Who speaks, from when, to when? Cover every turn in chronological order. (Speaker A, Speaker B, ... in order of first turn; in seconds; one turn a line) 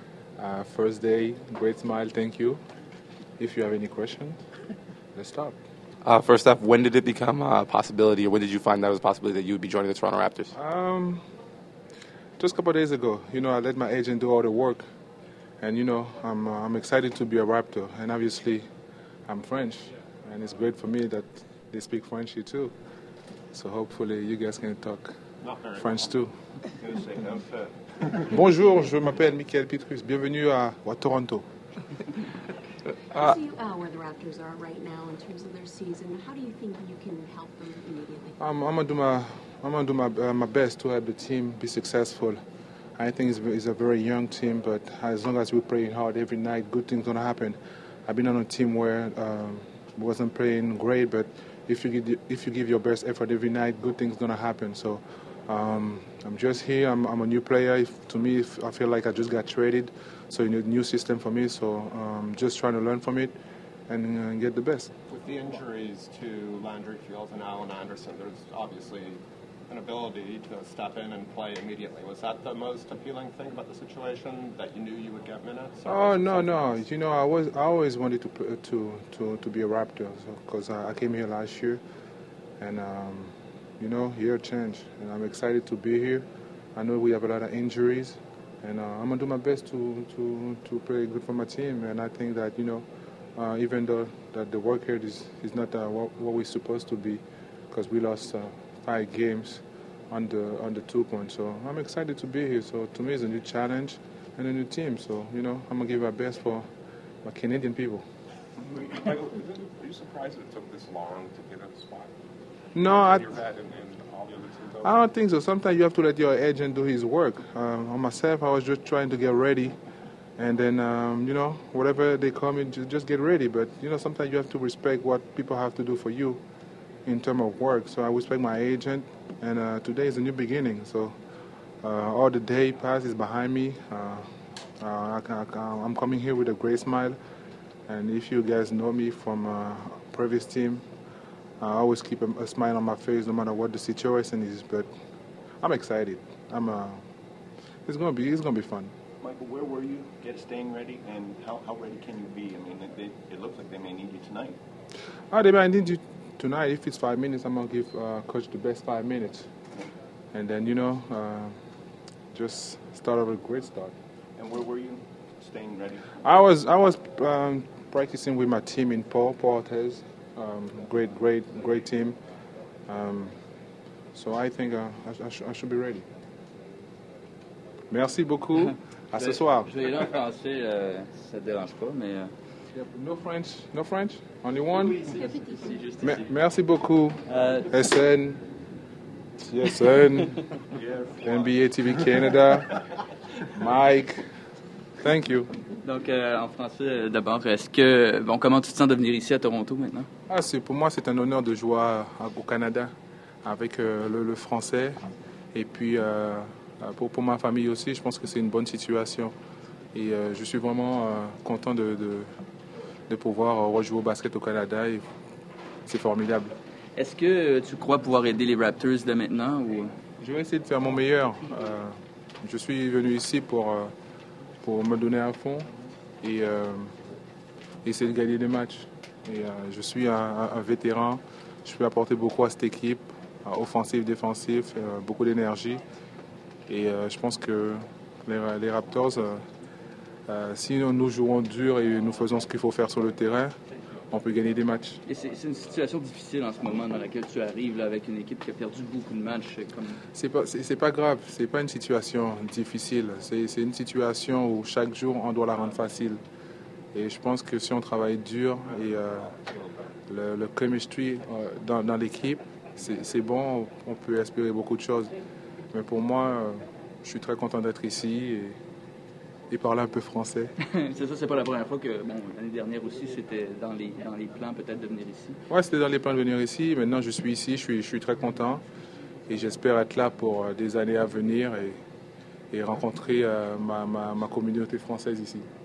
Speaker A: 0.4-2.6
Speaker A: 3.4-4.4
Speaker A: 5.1-5.6
Speaker B: 6.0-10.5
Speaker A: 10.5-11.2
Speaker A: 12.4-14.8
Speaker A: 15.6-18.6
Speaker A: 19.3-22.7
Speaker A: 23.5-25.1
Speaker C: 25.4-26.0
Speaker A: 25.8-26.3
Speaker D: 26.8-27.8
Speaker A: 28.2-31.4
Speaker E: 33.1-38.4
Speaker A: 38.4-42.4
Speaker A: 43.0-63.3
Speaker A: 63.9-64.9
Speaker C: 65.1-76.8
Speaker A: 75.8-81.8
Speaker A: 82.6-92.8
Speaker A: 93.3-106.7
Speaker A: 107.2-108.0
Speaker F: 108.7-112.1
Speaker A: 112.7-113.3
Speaker F: 112.8-115.0
Speaker A: 114.8-119.8
Speaker A: 120.4-126.4
Speaker A: 127.0-131.1
Speaker A: 131.8-134.3
Speaker A: 134.8-137.2
Speaker A: 137.9-140.8
Speaker A: 141.6-144.9
Speaker A: 145.6-147.0
Speaker A: 147.8-148.9
Speaker D: 149.2-154.6
Speaker A: 155.3-159.5
Speaker A: 160.3-161.5
Speaker A: 162.3-163.9
Speaker D: 164.3-166.2
Speaker A: 166.2-172.2
Speaker A: 172.9-173.3
Speaker A: 174.1-176.1
Speaker A: 177.9-179.7
Speaker G: 179.2-182.3
Speaker A: 182.7-185.0
Speaker G: 185.3-186.3
Speaker A: 186.0-188.4
Speaker G: 187.2-187.7
Speaker A: 189.4-190.4
Speaker D: 190.7-191.8
Speaker A: 191.2-192.8
Speaker A: 193.4-194.3
Speaker A: 195.0-195.5
Speaker G: 195.8-200.1
Speaker A: 200.3-205.0
Speaker A: 205.5-209.3
Speaker A: 209.9-212.3
Speaker A: 213.1-215.1
Speaker A: 215.8-216.5
Speaker G: 216.9-219.9
Speaker A: 220.2-223.9
Speaker A: 224.6-225.7
Speaker A: 226.2-226.9
Speaker A: 227.8-235.8
Speaker A: 236.7-239.4
Speaker A: 240.3-243.5
Speaker A: 244.1-245.0
Speaker G: 245.0-250.0
Speaker A: 250.1-256.2
Speaker A: 256.9-259.4
Speaker A: 260.1-265.1
Speaker A: 265.7-268.6
Speaker A: 269.5-270.5
Speaker G: 270.6-275.4
Speaker A: 275.5-278.6
Speaker A: 279.3-281.8
Speaker A: 282.5-285.5